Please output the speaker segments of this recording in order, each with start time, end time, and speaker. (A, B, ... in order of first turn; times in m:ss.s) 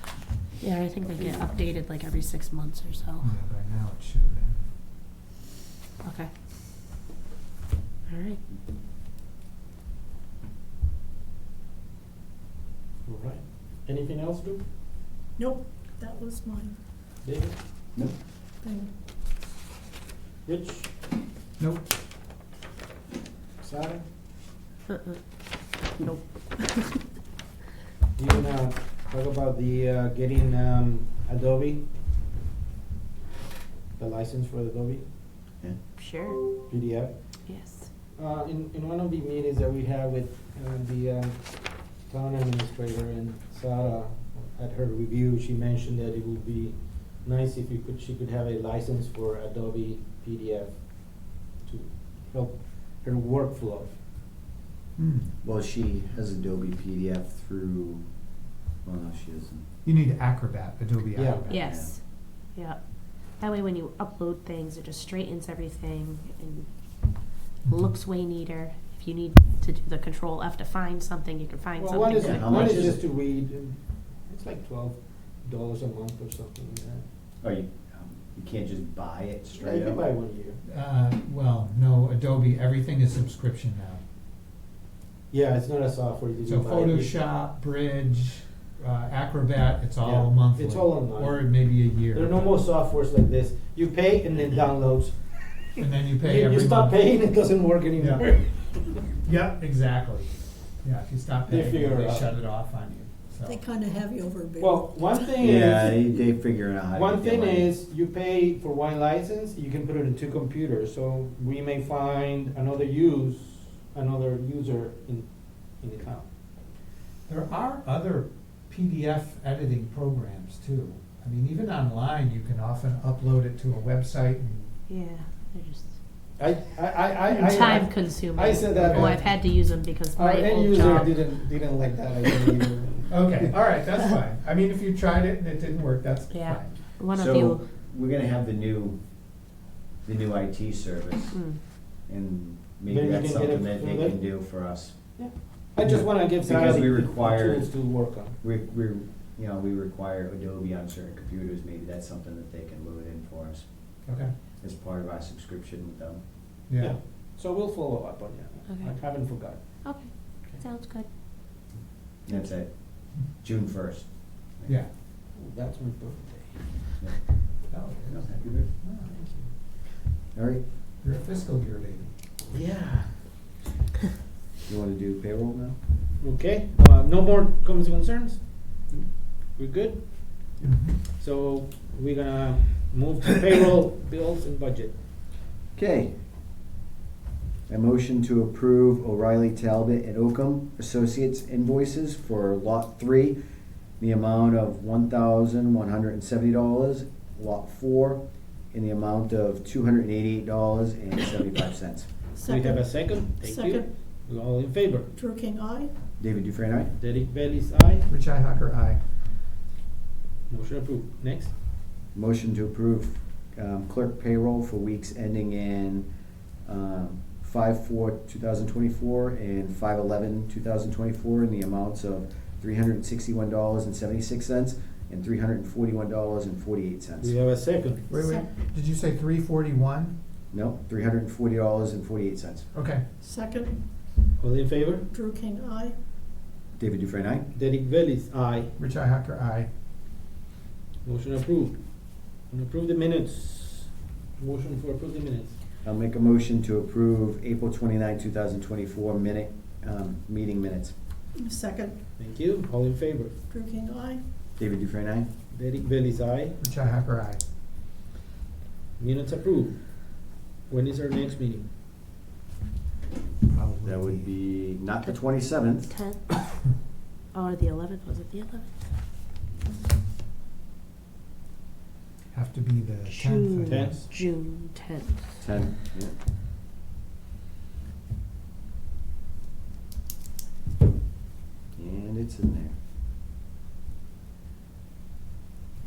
0:00.6-0:03.3 A
0:01.0-0:01.4 B
0:03.2-0:04.6 C
0:06.0-0:06.3 A
0:08.1-0:08.4 A
0:13.0-0:14.6 D
0:15.4-0:16.8 E
0:17.2-0:17.6 D
0:18.6-0:18.9 E
0:20.4-0:20.9 D
0:21.6-0:21.9 C
0:23.6-0:24.1 D
0:24.9-0:27.0 A
0:28.2-0:31.8 D
0:34.0-0:35.1 D
0:36.0-0:36.6 A
0:36.7-0:37.5 D
0:37.5-0:37.9 A
0:38.2-0:54.0 D
0:55.0-0:55.3 C
0:55.4-0:58.1 B
0:58.8-0:59.7 B
0:59.8-1:01.7 C
1:01.1-1:01.4 D
1:01.5-1:12.8 A
1:01.6-1:01.9 B
1:07.7-1:07.9 C
1:11.8-1:17.1 D
1:12.2-1:13.0 B
1:17.4-1:20.0 B
1:19.6-1:20.6 D
1:20.7-1:24.0 C
1:25.3-1:27.2 D
1:26.5-1:32.6 C
1:30.0-1:39.0 D
1:35.8-1:37.0 C
1:38.0-1:38.2 C
1:39.2-1:43.6 C
1:41.5-1:42.4 D
1:43.4-1:45.2 E
1:44.6-1:46.1 D
1:45.4-1:47.8 B
1:46.9-1:56.3 D
1:57.3-2:04.7 C
2:04.9-2:06.0 A
2:06.4-2:09.6 D
2:07.3-2:11.4 A
2:08.8-2:09.2 C
2:10.1-2:13.8 D
2:13.1-2:17.0 C
2:16.3-2:17.6 A
2:17.1-2:19.3 B
2:20.0-2:25.1 B
2:21.3-2:21.6 A
2:22.9-2:24.2 D
2:25.2-2:28.4 D
2:26.2-2:34.0 B
2:34.6-2:36.2 B
2:36.7-2:36.9 C
2:36.8-2:40.6 D
2:38.7-2:41.1 A
2:42.2-2:44.7 B
2:45.3-2:47.2 D
2:47.0-2:47.6 B
2:47.7-2:49.2 C
2:48.1-2:48.7 B
2:49.1-2:49.5 D
2:50.3-2:50.7 B
2:51.0-2:52.2 C
2:52.5-2:53.6 D
2:54.7-2:55.8 B
2:56.2-3:05.0 D
3:00.6-3:01.0 C
3:05.8-3:06.2 B
3:07.7-3:13.4 B
3:14.0-3:22.1 B
3:22.3-3:23.9 E
3:22.5-3:25.1 D
3:25.2-3:25.9 E
3:26.2-3:26.9 B
3:27.0-3:28.1 D
3:28.1-3:29.0 C
3:30.5-3:31.5 D
3:32.1-3:36.1 B
3:36.6-3:47.4 B
3:47.2-3:48.1 D
3:48.1-3:50.2 C
3:48.1-3:48.5 E
3:50.5-3:52.7 B
3:52.7-3:53.0 C
3:53.2-3:53.8 E
3:54.4-3:55.1 D
3:55.1-3:56.0 E
3:56.8-3:57.5 B
3:57.5-3:58.7 D
3:58.8-3:59.7 C
4:01.0-4:05.6 D
4:05.8-4:11.0 B
4:11.3-4:12.0 E
4:12.2-4:13.4 D
4:13.5-4:14.2 E
4:14.6-4:15.3 B
4:15.5-4:16.6 D
4:16.6-4:17.4 C
4:19.0-4:21.7 D
4:23.5-4:24.3 C
4:23.8-4:25.9 B
4:25.0-4:26.2 A
4:27.3-4:28.7 A
4:32.3-4:34.0 C
4:33.1-4:35.6 A
4:33.7-4:34.1 D
4:35.4-4:36.2 B
4:41.8-4:42.8 B